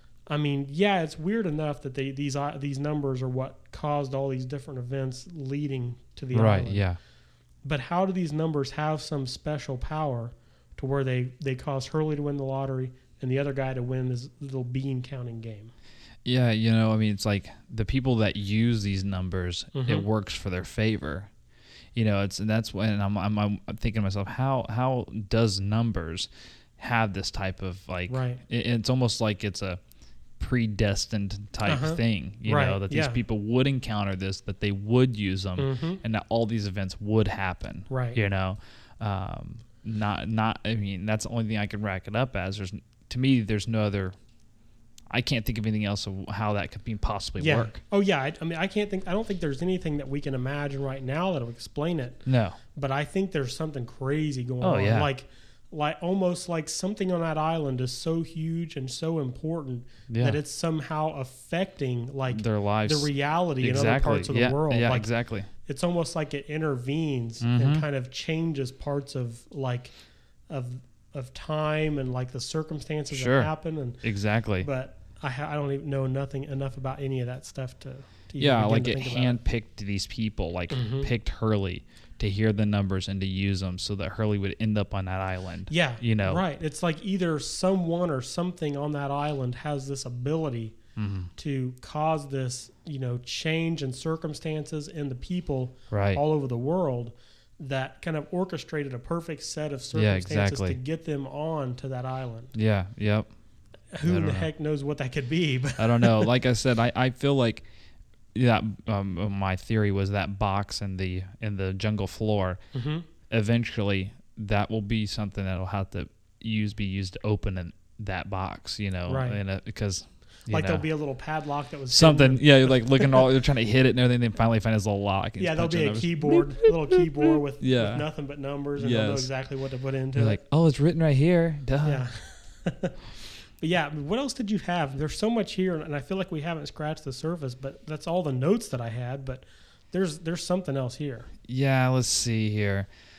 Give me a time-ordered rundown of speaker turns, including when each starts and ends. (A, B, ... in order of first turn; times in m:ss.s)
0:00.3-0:06.9 A
0:06.3-0:07.0 B
0:07.6-0:15.7 A
0:16.2-0:21.3 B
0:19.7-0:20.1 A
0:22.0-0:29.8 B
0:28.1-0:28.4 A
0:30.4-0:44.2 B
0:31.7-0:33.2 A
0:35.6-0:36.0 A
0:37.9-0:38.2 A
0:45.1-0:47.8 B
0:47.4-1:05.1 A
0:52.3-0:52.6 B
0:54.6-0:55.1 B
1:00.1-1:00.4 B
1:02.3-1:05.5 B
1:05.6-1:09.9 A
1:07.4-1:07.9 B
1:10.5-1:14.0 A
1:13.1-1:14.7 B
1:14.6-1:19.4 A
1:18.4-1:26.4 B
1:20.7-1:21.1 A
1:25.7-1:30.8 A
1:31.0-1:31.3 B
1:31.4-1:42.6 A
1:35.9-1:36.2 B
1:39.9-1:40.8 B
1:42.6-1:43.3 B
1:43.9-1:46.3 A
1:44.0-1:44.5 B
1:45.8-1:47.7 B
1:48.3-1:52.6 B
1:52.7-1:53.1 A
1:53.3-2:00.8 B
1:59.1-1:59.4 A
2:00.5-2:03.2 A
2:01.9-2:08.1 B
2:05.4-2:10.4 A
2:08.8-2:09.3 B
2:10.2-2:12.0 B
2:11.8-2:13.0 A
2:13.6-2:21.3 A
2:21.5-2:22.9 B